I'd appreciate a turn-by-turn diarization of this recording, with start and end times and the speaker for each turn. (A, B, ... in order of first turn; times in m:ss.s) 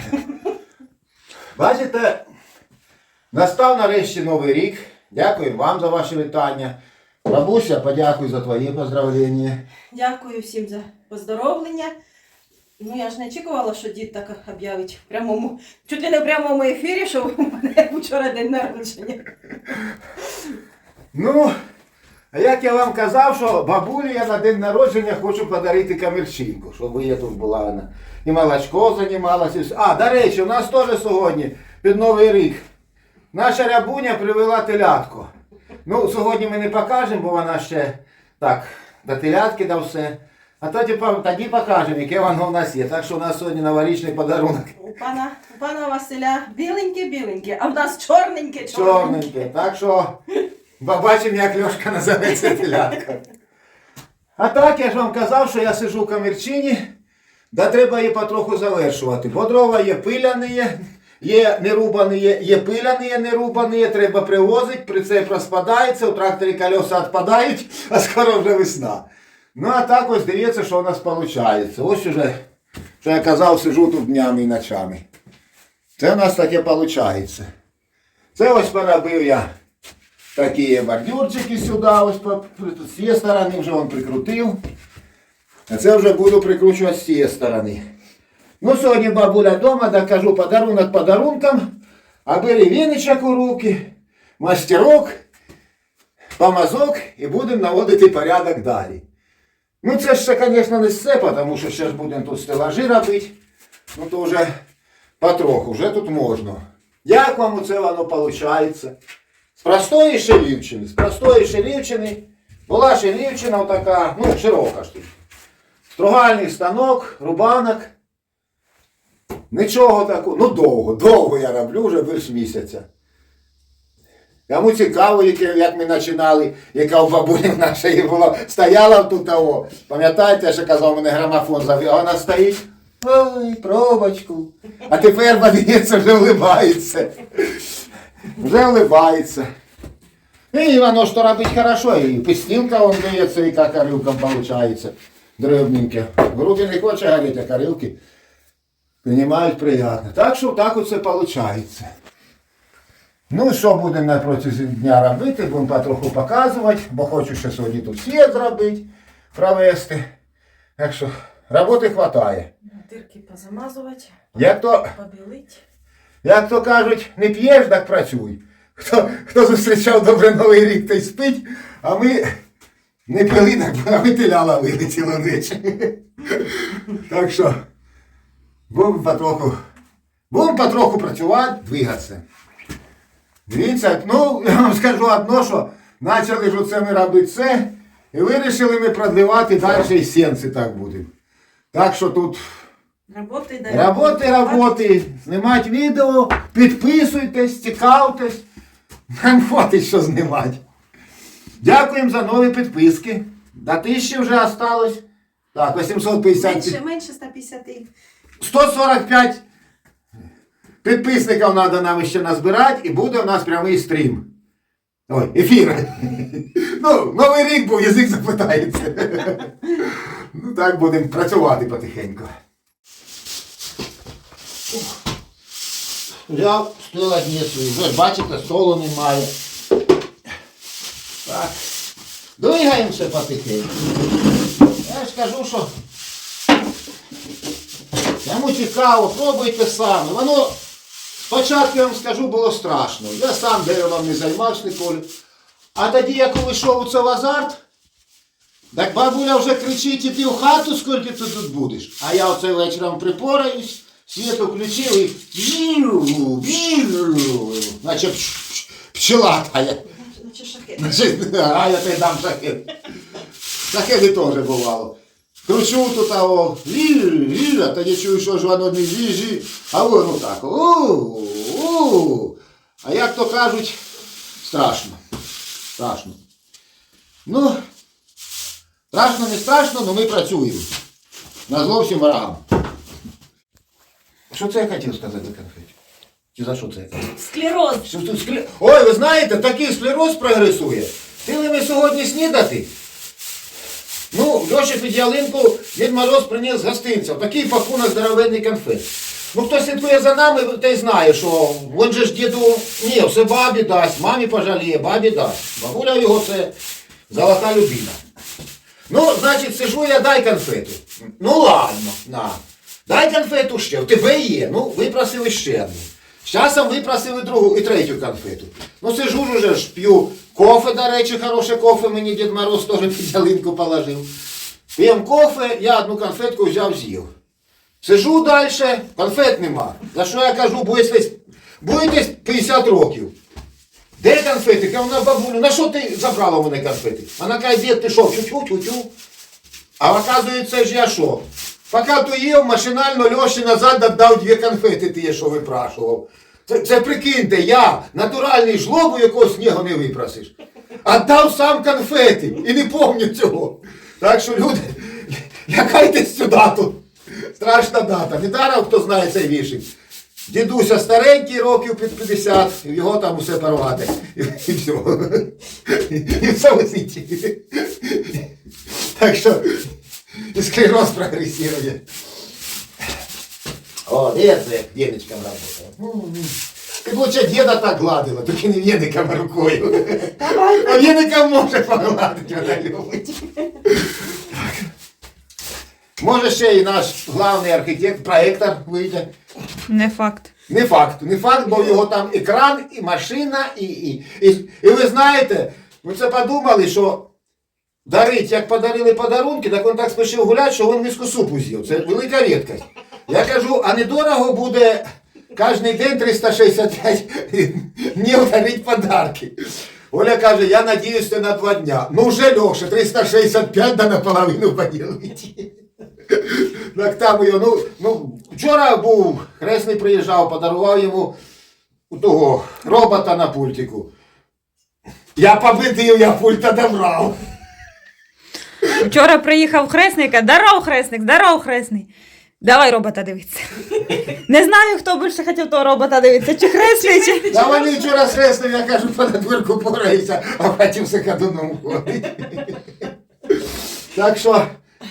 0:01.6-0:02.2 A
0:03.3-0:09.6 A
0:09.9-0:11.9 B
0:12.8-0:19.2 B
0:21.1-0:21.5 A
0:22.3-0:32.6 A
0:33.3-0:35.3 A
0:35.8-0:44.7 A
0:44.8-0:49.3 B
0:48.7-0:50.2 A
0:50.8-0:53.2 A
0:54.4-0:56.8 A
0:57.5-1:12.4 A
1:13.0-1:15.0 A
1:16.0-1:17.5 A
1:18.4-1:19.5 A
1:20.4-1:24.6 A
1:25.7-1:27.8 A
1:28.6-1:31.7 A
1:32.3-1:33.8 A
1:34.4-1:35.2 A
1:36.4-1:39.0 A
1:39.8-1:43.3 A
1:44.0-1:44.5 A
1:45.2-1:48.9 A
1:49.6-1:55.1 A
1:56.0-1:57.9 A
1:59.5-2:02.9 A
2:04.5-2:17.7 A
2:18.4-2:19.5 A
2:20.5-2:28.0 A
2:29.0-2:31.9 A
2:33.3-2:40.1 A
2:40.8-2:42.5 A
2:42.7-2:44.3 B
2:44.3-2:44.9 A
2:45.0-2:45.6 B
2:46.2-2:52.3 A
2:53.1-2:57.6 A
2:58.7-2:59.6 A
3:00.3-3:02.2 A
3:03.5-3:11.1 A
3:11.7-3:12.4 A
3:13.1-3:14.7 B
3:13.7-3:18.4 A
3:19.1-3:20.6 A
3:21.6-3:25.0 A
3:25.5-3:26.8 A
3:26.4-3:27.9 B
3:28.4-3:29.4 A
3:30.8-3:34.3 A
3:35.1-3:42.3 A
3:46.3-3:49.3 A
3:51.3-3:51.6 A
3:52.4-3:53.8 A
3:54.8-3:55.7 A
3:58.2-4:00.6 A
4:01.3-4:05.1 A
4:05.8-4:07.6 A
4:08.7-4:19.8 A
4:19.9-4:21.0 B
4:20.8-4:22.7 A
4:23.7-4:25.0 A
4:25.5-4:33.8 A
4:34.4-4:35.0 A
4:35.8-4:36.2 A
4:37.3-4:37.6 A
4:38.9-4:40.7 A
4:41.5-4:42.4 A
4:44.3-4:45.7 A
4:46.4-4:47.0 A
4:47.2-4:47.8 B
4:47.8-4:52.7 A
4:54.1-5:06.5 A
5:07.1-5:08.0 A
5:08.9-5:24.1 A
5:24.8-5:27.1 A
5:27.8-5:33.1 A
5:34.0-5:38.9 A
5:39.8-5:56.8 A
5:57.3-5:59.7 A
6:00.3-6:09.6 A
6:10.3-6:11.8 A
6:13.9-6:24.7 A
6:20.2-6:20.8 B
6:26.0-6:29.1 A
6:29.7-6:30.3 C
6:30.5-6:37.1 A
6:37.9-6:44.8 A
6:45.4-6:49.3 A
6:49.9-6:55.5 A
6:56.1-7:01.2 A
7:01.9-7:03.9 A
7:05.2-7:07.2 A
7:08.7-7:11.9 C
7:12.4-7:17.3 C
7:16.6-7:18.0 B
7:17.3-7:22.6 A
7:23.3-7:24.5 A